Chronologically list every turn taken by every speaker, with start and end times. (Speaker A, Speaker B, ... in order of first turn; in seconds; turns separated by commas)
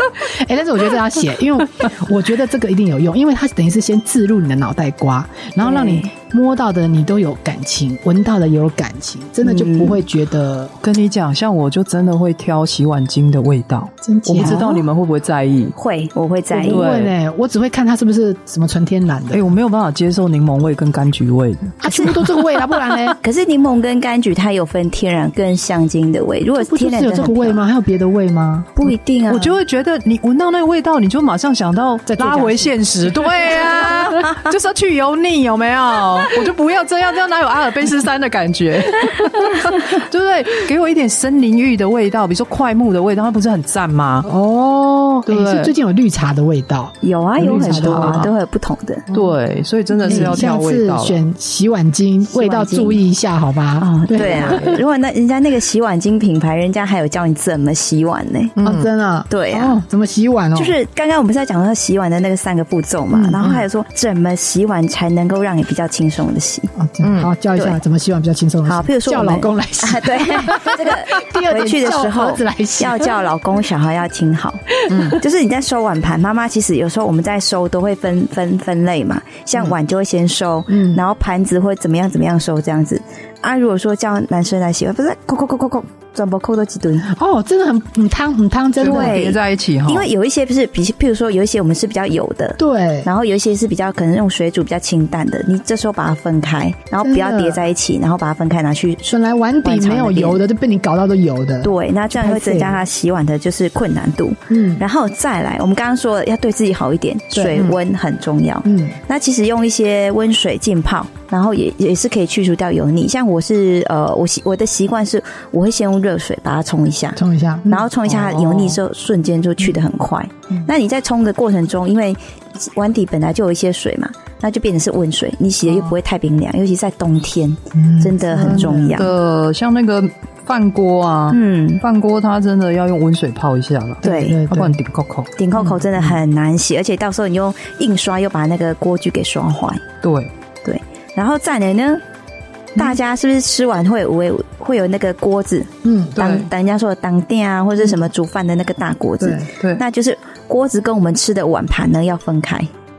Speaker A: 0.2-10.7, Speaker B: 5.6-6.1, Speaker B: 9.4-10.0, Speaker C: 10.8-15.8, Speaker A: 14.1-14.9, Speaker B: 14.4-14.7, Speaker B: 15.8-16.8, Speaker A: 16.5-19.5, Speaker C: 16.7-17.1, Speaker C: 19.3-22.2, Speaker A: 21.8-23.2, Speaker B: 21.9-22.4, Speaker B: 23.2-27.6, Speaker A: 26.6-28.9, Speaker B: 28.8-29.6, Speaker C: 29.3-44.3, Speaker A: 32.1-34.2, Speaker A: 44.2-48.3, Speaker C: 45.3-45.7, Speaker B: 47.0-49.1, Speaker C: 47.4-48.3, Speaker A: 49.1-49.4, Speaker C: 49.1-51.2, Speaker A: 50.0-54.8, Speaker B: 50.0-50.4, Speaker B: 52.3-53.0, Speaker B: 53.8-58.5, Speaker C: 54.2-54.8, Speaker C: 58.6-58.9, Speaker A: 58.6-60.8, Speaker B: 59.3-59.8, Speaker B: 60.5-66.7, Speaker A: 63.1-63.6, Speaker A: 66.8-73.2, Speaker C: 67.0-67.3, Speaker B: 68.7-87.1, Speaker A: 74.9-75.2, Speaker C: 74.9-75.2, Speaker A: 80.7-81.0, Speaker A: 87.1-89.2, Speaker C: 88.8-90.1, Speaker B: 88.8-99.0, Speaker A: 92.6-93.1, Speaker A: 97.0-97.6, Speaker A: 99.0-102.8, Speaker B: 99.6-100.4, Speaker B: 101.6-129.1, Speaker A: 104.5-104.8, Speaker A: 107.3-107.8, Speaker A: 108.7-109.0, Speaker A: 117.2-117.9, Speaker C: 118.1-118.8, Speaker C: 127.9-136.1, Speaker A: 127.9-129.1, Speaker B: 131.3-131.8, Speaker A: 134.0-134.8, Speaker B: 134.0-134.4, Speaker B: 135.4-139.8, Speaker C: 140.0-140.3, Speaker B: 140.6-142.0, Speaker B: 142.8-152.7, Speaker A: 145.8-146.2, Speaker C: 146.2-146.5, Speaker A: 149.2-149.5